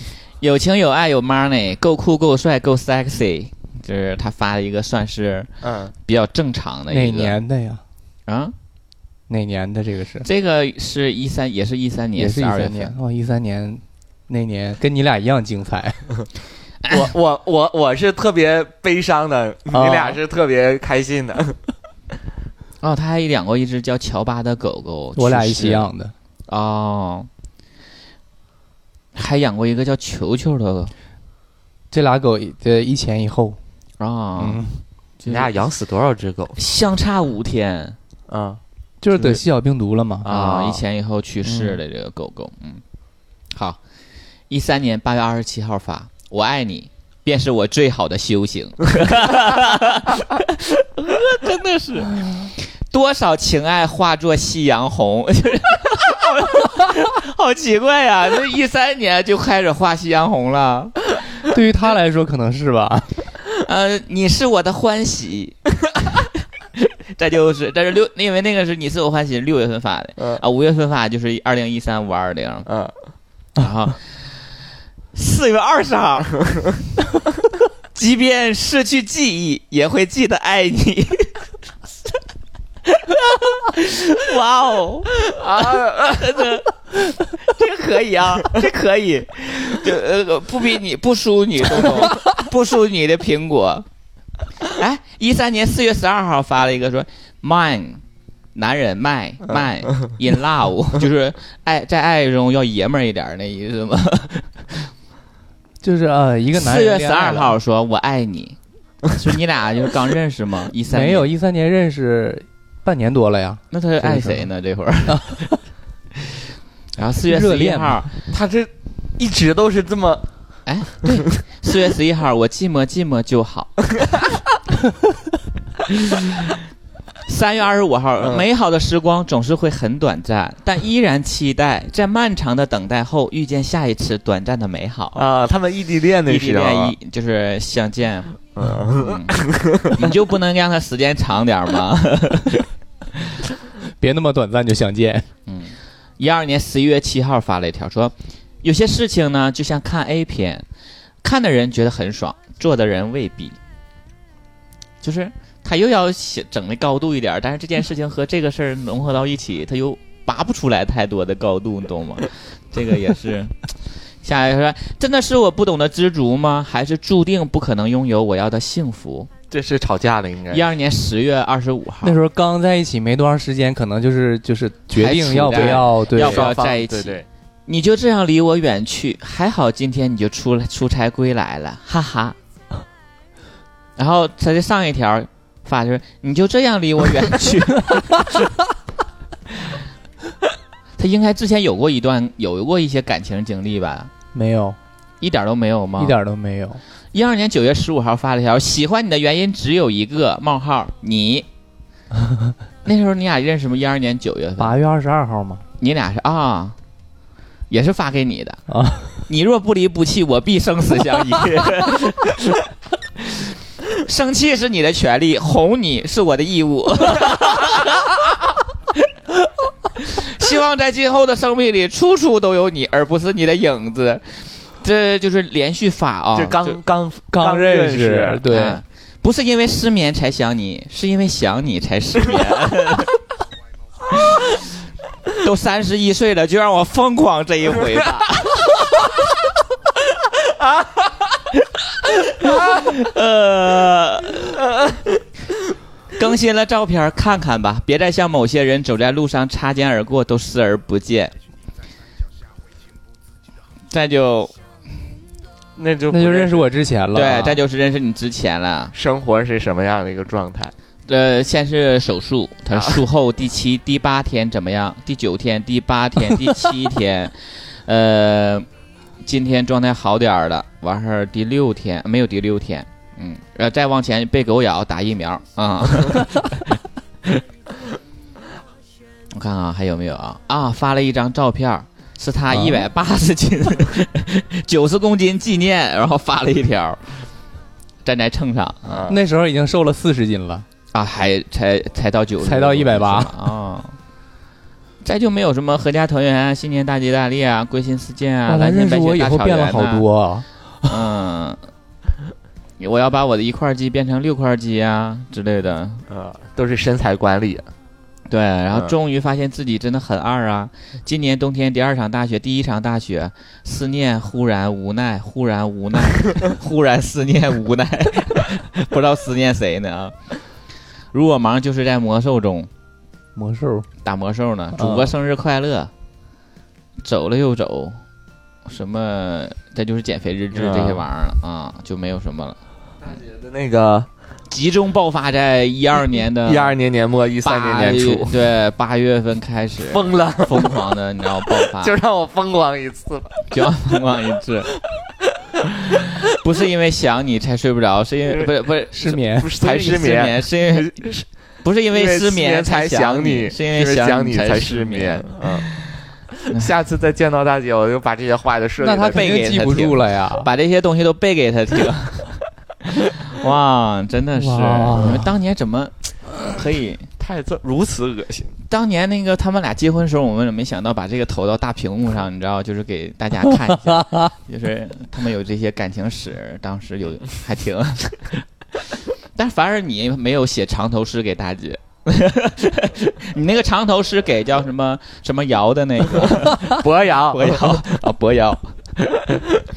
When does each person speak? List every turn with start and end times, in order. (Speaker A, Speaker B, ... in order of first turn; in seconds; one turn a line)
Speaker A: 0.4-5.5
Speaker B: 5.6-5.9
Speaker A: 6.0-7.4
Speaker C: 6.9-7.8
Speaker A: 8.3-8.5
Speaker C: 9.3-10.2
Speaker A: 10.2-12.9
Speaker C: 12.2-16.2
Speaker A: 16.8-17.1
Speaker B: 16.9-21.6
Speaker C: 19.7-20.2
Speaker A: 22.8-25.9
Speaker C: 25.1-26.1
Speaker A: 26.5-27.3
Speaker A: 29.1-30.9
Speaker C: 31.9-33.6
Speaker A: 34.0-34.6
Speaker C: 34.4-34.8
Speaker A: 35.2-35.6
Speaker B: 35.3-36.5
Speaker A: 36.5-38.0
Speaker B: 38.3-38.6
Speaker C: 39.0-40.3
Speaker B: 39.1-39.4
Speaker B: 40.2-40.8
Speaker A: 40.2-42.8
Speaker B: 41.4-41.8
Speaker A: 44.5-61.0
Speaker C: 61.4-63.1
Speaker A: 63.6-65.6
Speaker A: 67.1-72.7
Speaker B: 72.7-72.9
Speaker A: 73.6-74.0
Speaker A: 75.1-76.4
Speaker A: 77.9-81.4
Speaker A: 82.9-86.7
Speaker B: 85.3-86.2
Speaker A: 87.4-93.9
Speaker A: 94.7-98.0
Speaker A: 98.5-104.6
Speaker C: 105.8-107.5
Speaker A: 106.5-108.6
Speaker A: 109.1-111.3
Speaker C: 110.9-114.3
Speaker A: 113.7-115.4
Speaker C: 115.1-115.5
Speaker A: 117.0-118.1
Speaker C: 117.3-118.0
Speaker B: 118.3-120.2
Speaker A: 120.7-123.8
Speaker A: 127.3-135.2
Speaker B: 128.2-128.4
Speaker B: 135.1-136.9
Speaker A: 136.2-142.6
Speaker B: 138.6-140.0
Speaker C: 144.0-145.3
Speaker A: 145.5-150.6
Speaker A: 151.2-153.6
Speaker A: 155.0-163.6
Speaker A: 164.2-169.3
Speaker B: 169.5-170.7
Speaker A: 170.5-172.2
Speaker C: 172.0-176.5
Speaker A: 174.9-182.4
Speaker B: 175.5-177.2
Speaker A: 184.0-188.5
Speaker A: 191.0-194.1
Speaker C: 194.3-194.8
Speaker A: 195.2-196.2
Speaker C: 196.0-196.8
Speaker A: 197.1-201.4
Speaker A: 202.8-204.8
Speaker C: 204.6-205.6
Speaker A: 205.8-206.8
Speaker A: 207.7-208.6
Speaker C: 208.7-209.2
Speaker A: 209.3-212.6
Speaker A: 213.3-218.1
Speaker A: 219.9-226.8
Speaker B: 226.3-228.5
Speaker C: 227.3-228.8
Speaker A: 228.5-233.1
Speaker A: 234.2-234.5
Speaker A: 235.4-239.1
Speaker A: 242.2-244.6
Speaker A: 246.2-251.3
Speaker A: 253.9-254.5
Speaker B: 255.8-256.7
Speaker C: 256.1-257.6
Speaker A: 257.1-258.9
Speaker B: 258.9-260.7
Speaker A: 261.1-268.7
Speaker B: 262.7-263.0
Speaker A: 269.2-276.6
Speaker A: 279.3-287.2
Speaker C: 282.5-282.9
Speaker A: 288.0-289.0
Speaker B: 288.9-289.2
Speaker C: 289.1-290.6
Speaker A: 290.9-294.0
Speaker C: 292.4-293.3
Speaker A: 295.0-300.0
Speaker C: 298.5-300.4
Speaker A: 300.9-301.6
Speaker A: 302.8-306.0
Speaker B: 306.1-307.7
Speaker A: 308.3-320.2
Speaker A: 321.1-322.7
Speaker C: 323.4-323.9
Speaker A: 324.0-325.9
Speaker C: 324.8-325.1
Speaker A: 327.0-328.0
Speaker A: 328.6-332.6
Speaker B: 330.5-331.0
Speaker B: 333.0-334.1
Speaker A: 334.5-336.8
Speaker B: 336.4-338.3
Speaker A: 337.4-341.9
Speaker B: 339.9-340.9
Speaker B: 341.6-343.4
Speaker A: 343.5-344.7
Speaker A: 346.3-351.1
Speaker C: 348.9-349.5
Speaker B: 349.2-351.3
Speaker A: 351.6-355.9
Speaker B: 351.9-355.7
Speaker B: 356.5-359.3
Speaker C: 358.8-360.5
Speaker A: 359.1-367.1
Speaker C: 364.4-365.3
Speaker B: 367.2-368.5
Speaker A: 368.7-378.3
Speaker A: 379.3-386.8
Speaker B: 386.1-388.0
Speaker A: 387.3-389.4